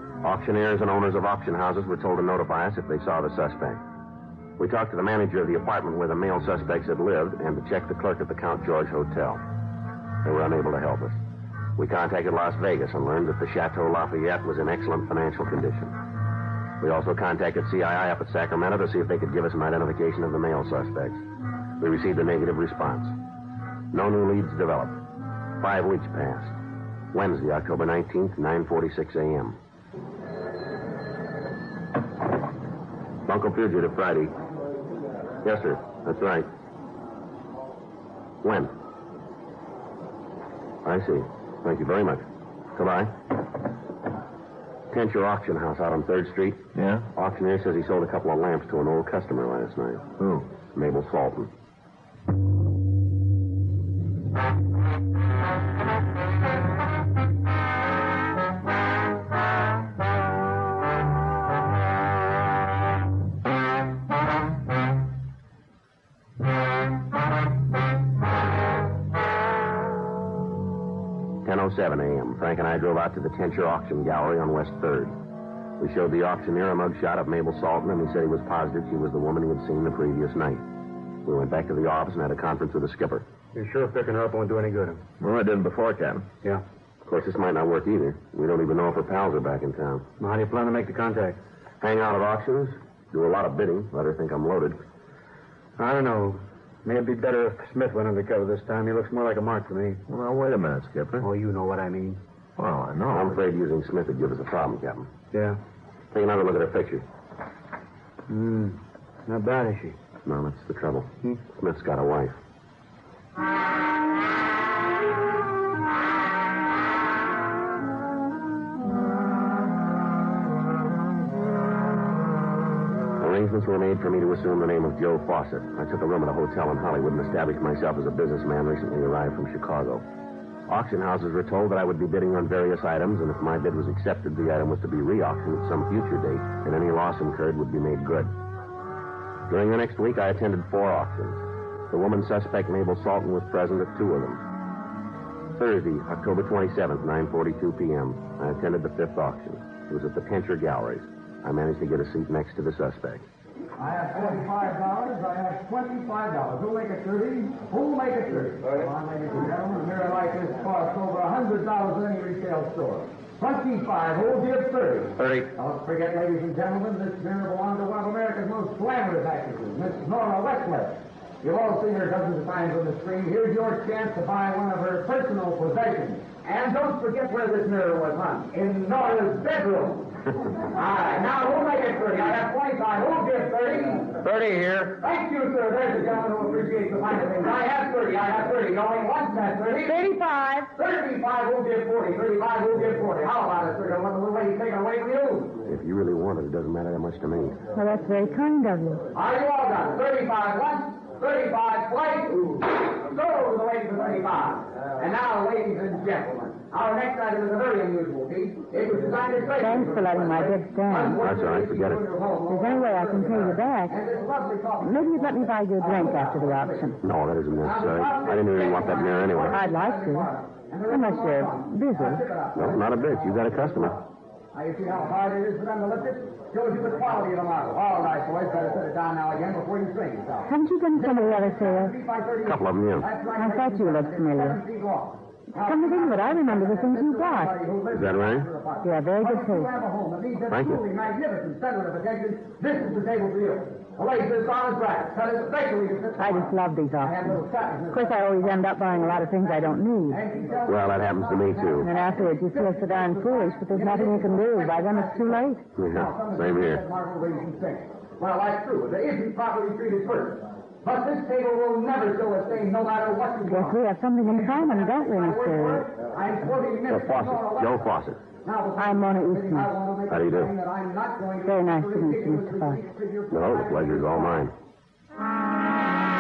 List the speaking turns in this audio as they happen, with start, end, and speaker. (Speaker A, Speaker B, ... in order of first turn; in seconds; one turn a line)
Speaker A: 0.2-3.8
Speaker A: 4.6-9.4
Speaker A: 10.2-11.2
Speaker A: 11.8-15.9
Speaker A: 16.8-21.2
Speaker A: 21.8-23.1
Speaker A: 23.9-25.0
Speaker A: 25.6-26.6
Speaker A: 27.1-29.6
Speaker A: 33.3-34.4
Speaker A: 35.4-36.5
Speaker A: 38.4-38.7
Speaker A: 40.8-43.2
Speaker A: 44.9-46.6
Speaker B: 46.8-47.1
Speaker A: 47.1-50.1
Speaker B: 50.2-50.5
Speaker A: 50.7-51.5
Speaker A: 71.5-75.2
Speaker A: 75.8-80.6
Speaker A: 81.2-83.3
Speaker C: 83.5-85.0
Speaker B: 85.2-86.3
Speaker A: 87.0-90.1
Speaker C: 90.2-91.4
Speaker A: 91.8-94.8
Speaker C: 95.8-100.0
Speaker B: 100.1-101.3
Speaker C: 101.2-102.2
Speaker B: 102.6-103.4
Speaker A: 103.1-105.1
Speaker C: 105.3-105.6
Speaker A: 106.1-107.0
Speaker C: 108.3-110.0
Speaker A: 110.2-112.4
Speaker A: 123.2-130.1
Speaker A: 130.7-138.3
Speaker A: 139.5-144.4
Speaker A: 145.6-153.3
Speaker D: 153.8-180.1
Speaker A: 165.2-165.5
Speaker D: 180.7-184.2
Speaker A: 184.3-184.8
Speaker D: 184.9-190.0
Speaker E: 189.8-190.7
Speaker D: 190.8-195.6
Speaker A: 195.7-197.6
Speaker E: 197.8-199.1
Speaker D: 199.1-217.0
Speaker E: 209.6-211.2
Speaker A: 211.2-212.0
Speaker E: 212.5-214.0
Speaker E: 214.8-217.0
Speaker A: 217.0-219.6
Speaker D: 217.6-223.8
Speaker E: 219.5-220.3
Speaker E: 220.9-222.3
Speaker A: 222.6-224.0
Speaker D: 224.5-267.9
Speaker E: 230.4-232.0
Speaker A: 232.4-233.1
Speaker E: 233.3-234.6
Speaker E: 235.6-237.6
Speaker A: 237.9-238.5
Speaker E: 238.8-239.7
Speaker A: 240.5-240.8
Speaker E: 246.2-250.2
Speaker A: 250.7-251.9
Speaker E: 251.8-255.7
Speaker A: 255.8-256.8
Speaker E: 263.5-265.9
Speaker A: 266.9-268.2
Speaker D: 268.4-274.5
Speaker E: 268.8-269.7
Speaker A: 270.1-270.5
Speaker E: 271.4-272.9
Speaker A: 273.3-274.5